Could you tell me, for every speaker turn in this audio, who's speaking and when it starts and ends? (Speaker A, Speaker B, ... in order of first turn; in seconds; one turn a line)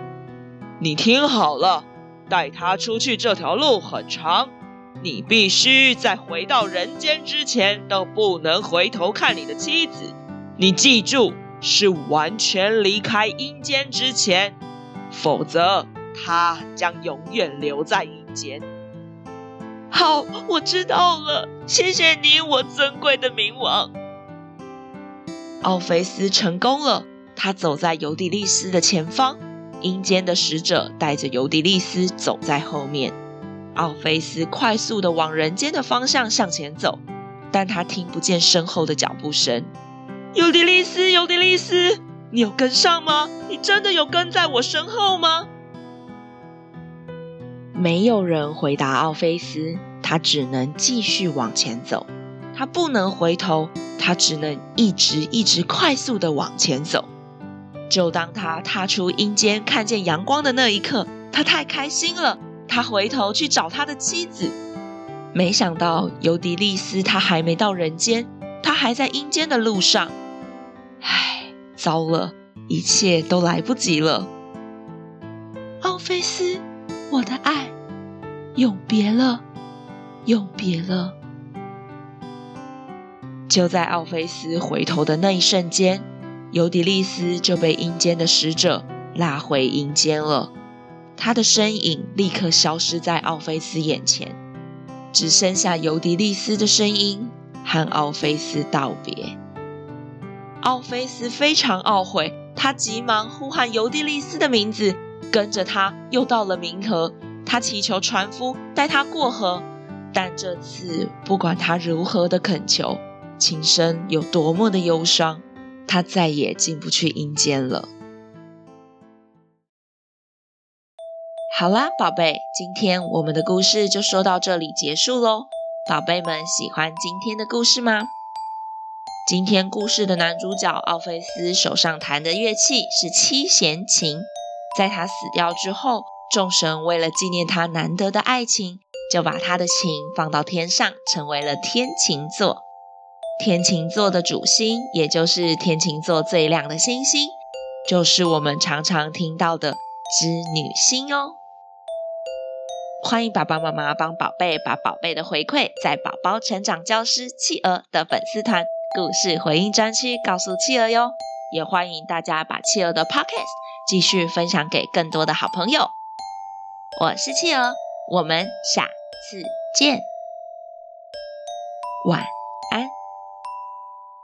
Speaker A: 0.8-14.6
Speaker A: 15.1-18.6
Speaker A: 19.9-23.9
Speaker A: 25.6-33.1
Speaker A: 33.7-39.7
Speaker A: 40.3-45.5
Speaker A: 47.7-57.1
Speaker A: 57.9-64.6
Speaker A: 65.3-70.1
Speaker A: 71.0-74.3
Speaker A: 75.8-77.7
Speaker A: 78.5-79.4
Speaker A: 80.2-81.2
Speaker A: 83.5-90.5
Speaker A: 91.2-94.4
Speaker A: 95.1-99.3
Speaker A: 100.6-117.9
Speaker A: 121.5-128.1
Speaker A: 129.2-142.7
Speaker A: 143.4-151.4
Speaker A: 153.0-165.9
Speaker A: 167.0-170.1
Speaker A: 172.0-172.9